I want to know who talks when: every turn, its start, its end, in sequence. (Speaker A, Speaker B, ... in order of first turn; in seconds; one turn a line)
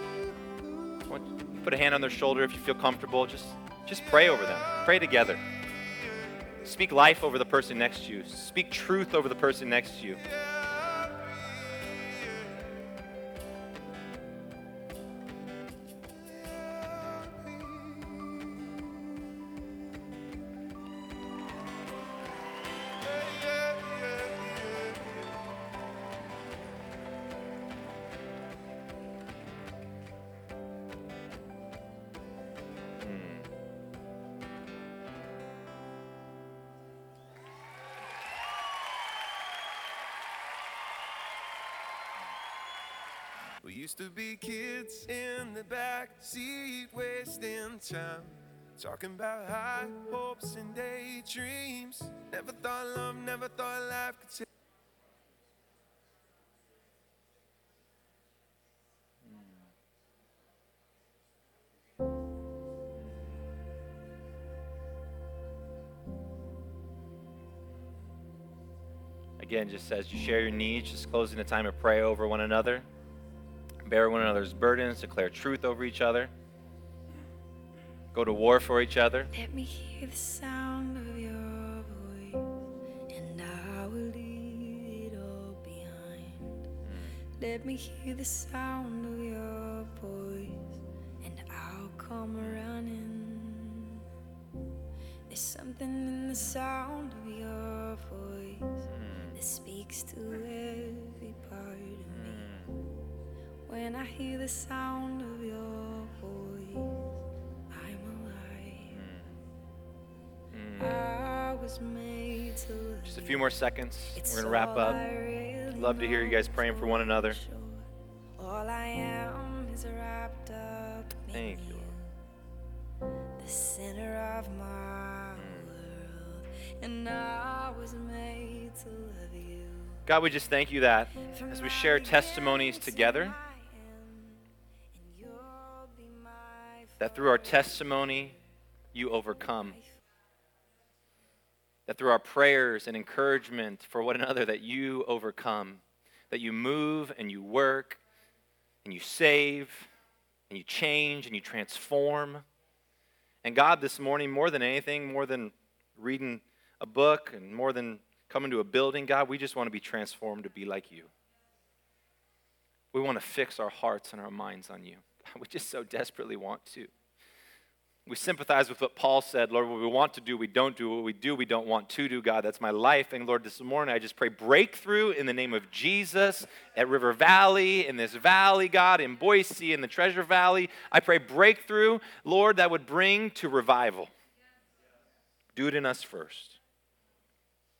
Speaker A: 1.1-5.4
Speaker B: 4.0-6.6
Speaker A: 6.6-10.2
Speaker B: 10.2-12.9
Speaker B: 16.0-18.7
Speaker B: 22.9-25.6
Speaker A: 33.0-33.5
Speaker B: 43.6-54.5
Speaker A: 69.4-72.9
Speaker A: 73.8-76.3
Speaker A: 78.1-79.3
Speaker C: 79.3-82.6
Speaker C: 83.1-86.7
Speaker A: 86.8-87.2
Speaker C: 87.4-94.0
Speaker A: 92.4-92.7
Speaker C: 95.3-102.5
Speaker A: 98.9-99.4
Speaker A: 102.1-102.8
Speaker C: 103.7-107.1
Speaker C: 107.7-109.0
Speaker A: 108.9-109.4
Speaker A: 110.5-111.0
Speaker C: 110.8-113.5
Speaker A: 113.0-115.0
Speaker C: 114.1-122.1
Speaker A: 115.7-117.4
Speaker A: 121.3-121.9
Speaker C: 123.4-130.0
Speaker A: 125.3-125.8
Speaker A: 130.1-133.3
Speaker C: 131.2-138.4
Speaker A: 137.0-138.4
Speaker A: 138.9-139.8
Speaker C: 139.3-140.0
Speaker A: 141.9-148.0
Speaker A: 148.8-149.9
Speaker A: 150.5-152.4
Speaker A: 153.4-161.1
Speaker A: 162.9-166.9
Speaker A: 168.1-184.1
Speaker A: 185.6-186.6